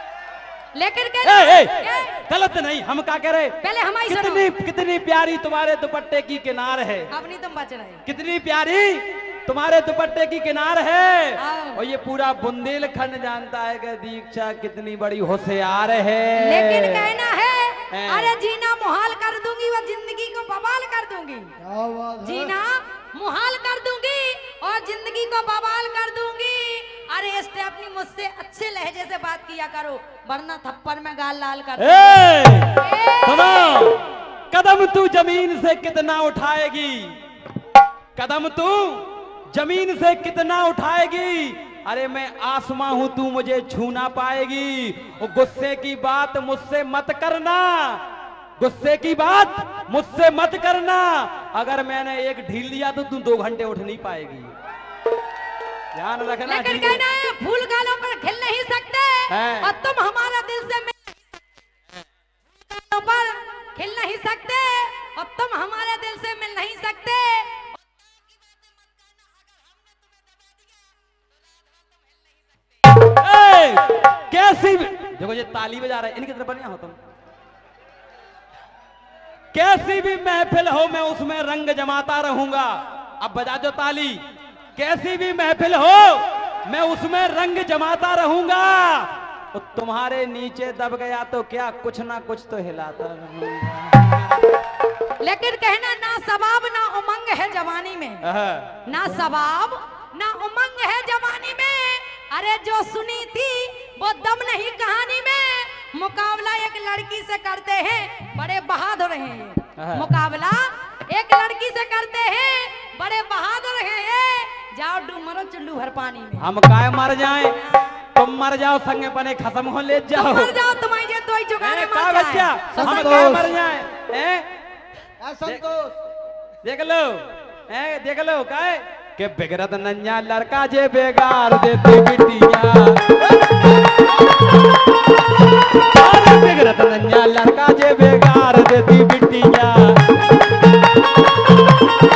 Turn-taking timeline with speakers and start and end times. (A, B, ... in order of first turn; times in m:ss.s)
0:00.7-0:02.2 A
0:01.2-0:07.1 B
0:03.6-0:04.5 A
0:07.1-0:08.0 A
0:08.0-0:17.1 B
0:11.4-0:11.8 A
0:16.4-0:21.5 A
0:17.9-0:18.4 B
0:21.6-0:22.5 C
0:22.2-0:33.8 A
0:31.8-0:37.2 B
0:38.2-0:48.0 B
0:48.6-0:54.5 B
0:55.9-0:57.0 B
0:56.4-1:01.2 A
0:59.3-0:59.7 B
1:02.6-1:07.7 A
1:13.1-1:17.0 B
1:19.5-1:24.2 B
1:24.8-1:34.5 B
1:35.2-1:38.2 A
1:38.2-1:38.8 B
1:38.8-1:56.5 A
1:49.8-1:50.1 B
1:56.4-1:57.6 B
1:58.1-2:00.6 B
2:00.1-2:03.0 A
2:01.6-2:04.4 B
2:02.7-2:03.6 C
2:05.2-2:06.0 C
2:06.6-2:13.1 B
2:13.4-2:14.0 C
2:15.9-2:20.0 B